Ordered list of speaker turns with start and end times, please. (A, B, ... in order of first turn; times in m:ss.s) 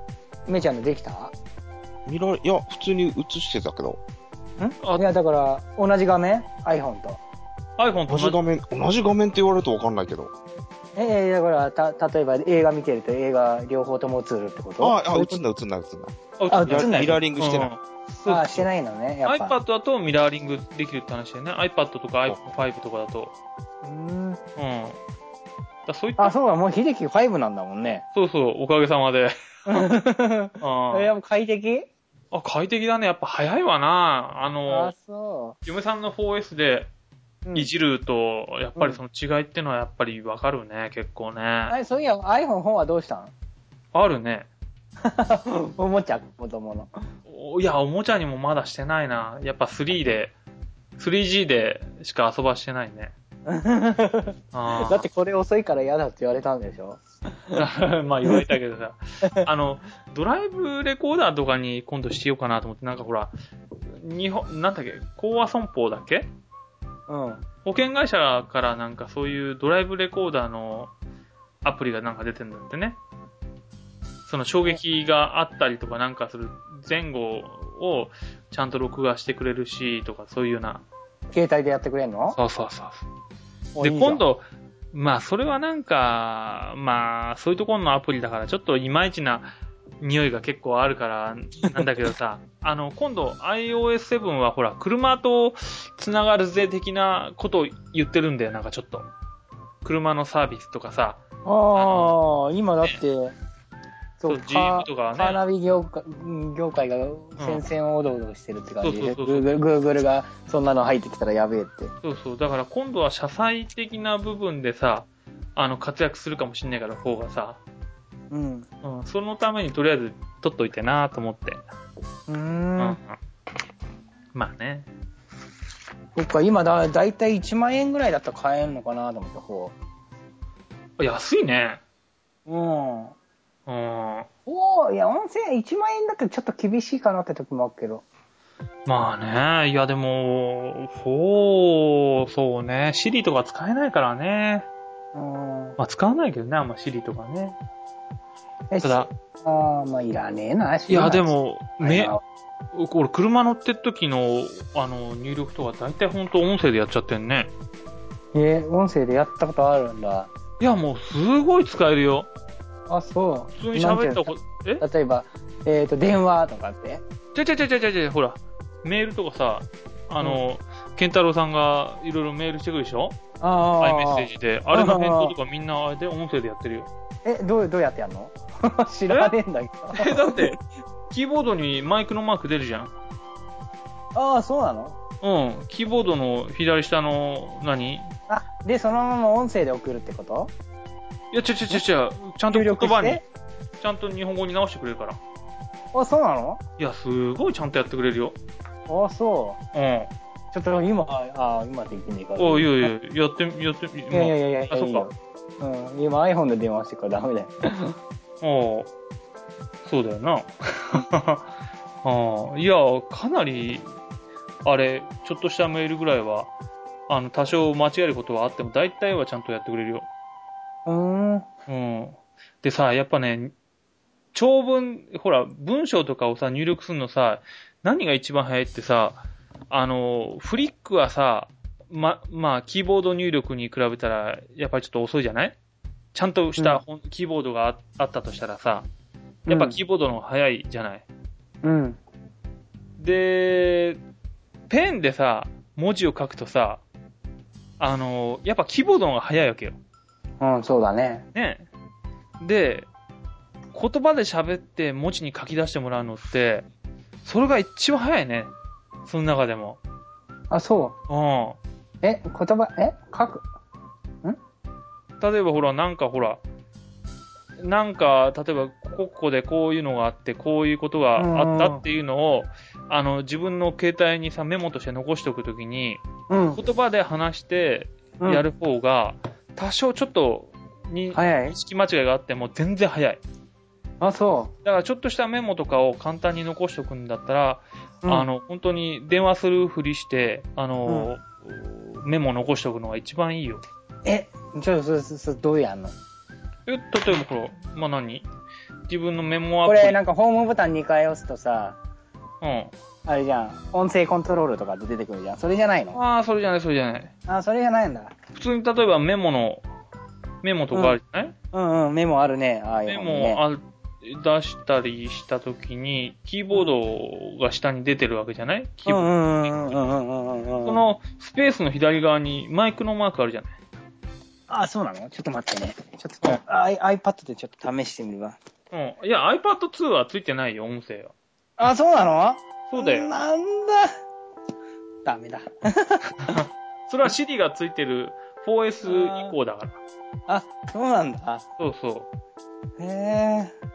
0:00.4-0:01.3 A
0:02.0-0:04.0 B
0:04.6-0:07.2 A
0:07.8-0:08.4 C
0:08.1-0:10.3 B
0:11.0-0:15.4 A
0:14.8-0:16.1 B
0:16.4-0:18.7 C
0:16.5-0:17.2 A
0:16.7-0:17.7 B
0:18.2-0:19.6 A
0:19.2-0:23.3 C
0:23.8-0:24.4 A
0:24.6-0:25.0 C
0:25.8-0:26.3 C
0:26.2-0:28.0 A
0:28.1-0:29.9 C
0:29.7-0:31.9 A
0:30.6-0:31.1 C
0:32.3-0:34.9 C
0:34.7-0:35.6 A
0:35.6-0:36.9 C
0:37.4-0:37.7 A
0:37.5-0:41.8 C
0:41.7-0:43.3 A
0:43.9-0:44.5 C
0:45.0-0:46.9 A
0:47.3-0:50.3 C
0:51.0-0:53.1 C
0:53.4-0:57.6 A
0:54.5-0:55.0 C
0:57.5-1:03.3 C
1:03.8-1:06.3 C
1:07.1-1:07.4 A
1:07.6-1:10.9 C
1:11.6-1:13.0 C
1:14.2-1:20.8 C
1:21.3-1:22.4 A
1:22.3-1:23.0 C
1:23.7-1:24.2 A
1:23.8-1:39.1 C
1:39.8-1:41.2 C
1:41.4-1:43.3 A
1:41.7-1:42.2 C
1:44.2-1:51.9 A
1:44.2-1:45.4 C
1:47.4-1:47.6 C
1:48.8-1:49.5 C
1:52.0-1:57.6 C
1:58.3-1:58.7 A
1:58.8-2:01.6 C
2:02.3-2:03.0 A
2:02.8-2:03.2 C
2:04.3-2:04.9 C
2:06.1-2:09.7 A
2:11.0-2:11.8 C
2:12.4-2:13.1 A
2:13.6-2:14.3 C
2:14.5-2:18.0 A
2:18.8-2:24.7 C
2:25.1-2:25.8 A
2:25.8-2:27.6 C
2:28.7-2:32.2 A
2:28.8-2:29.1 C
2:30.9-2:32.2 C
2:32.7-2:37.5 C
2:38.3-2:40.3 A
2:40.6-2:42.3 C
2:42.9-2:47.0 A
2:43.6-2:44.8 C
2:47.3-2:53.2 C
2:53.4-2:55.3 A
2:53.8-2:56.9 C
2:57.2-3:00.5 A
2:59.9-3:00.6 C
3:01.1-3:02.9 C
3:04.1-3:05.0 A
3:05.2-3:08.1 C
3:08.3-3:10.5 A
3:11.3-3:13.2 C
3:12.5-3:13.2 A
3:13.8-3:15.2 C
3:15.9-3:16.6 A
3:16.8-3:18.4 C
3:18.9-3:19.6 A
3:19.7-3:20.1 C
3:20.5-3:22.9 A
3:22.4-3:25.1 C
3:24.1-3:27.9 A
3:28.4-3:28.9 C
3:29.8-3:31.5 C
3:32.0-3:33.9 C
3:34.6-3:36.5 C
3:37.1-3:40.1 C
3:40.8-3:41.5 A
3:41.7-3:43.5 C
3:44.3-3:55.6 C
3:56.1-3:58.9 C
3:56.6-3:56.8 A
3:59.5-3:59.8 A
3:59.5-4:01.0 C
4:01.6-4:02.0 A
4:03.0-4:04.0 C
4:04.7-4:06.8 C
4:07.8-4:09.8 C
4:10.4-4:11.2 A
4:11.3-4:11.7 C
4:12.4-4:12.9 C
4:13.7-4:16.6 C
4:17.2-4:18.5 C
4:19.0-4:19.8 C
4:20.5-4:21.0 A
4:21.1-4:21.6 C
4:22.0-4:23.4 A
4:25.2-4:26.4 C
4:27.6-4:36.0 C
4:31.2-4:31.8 A
4:36.3-4:36.6 A
4:36.5-4:43.2 C
4:38.2-4:38.4 A
4:41.1-4:41.6 A
4:44.0-4:44.5 A
4:44.6-4:53.6 C
4:54.0-4:55.9 A
4:56.6-4:58.2 C
4:58.9-5:00.0 C
4:59.6-5:01.8 A
5:02.4-5:02.7 C
5:03.0-5:06.0 A
5:05.9-5:07.1 C
5:07.3-5:08.1 A
5:08.3-5:09.6 C
5:10.4-5:11.3 C
5:11.5-5:13.4 A
5:12.9-5:19.6 C
5:18.8-5:20.8 A
5:20.6-5:23.5 C
5:24.5-5:28.4 A
5:28.7-5:31.1 C
5:31.6-5:33.9 A
5:32.7-5:33.1 C
5:35.0-5:36.4 A
5:36.2-5:39.8 C
5:38.8-5:39.3 A
5:40.3-5:41.4 A
5:41.6-5:42.1 C
5:42.8-5:43.5 A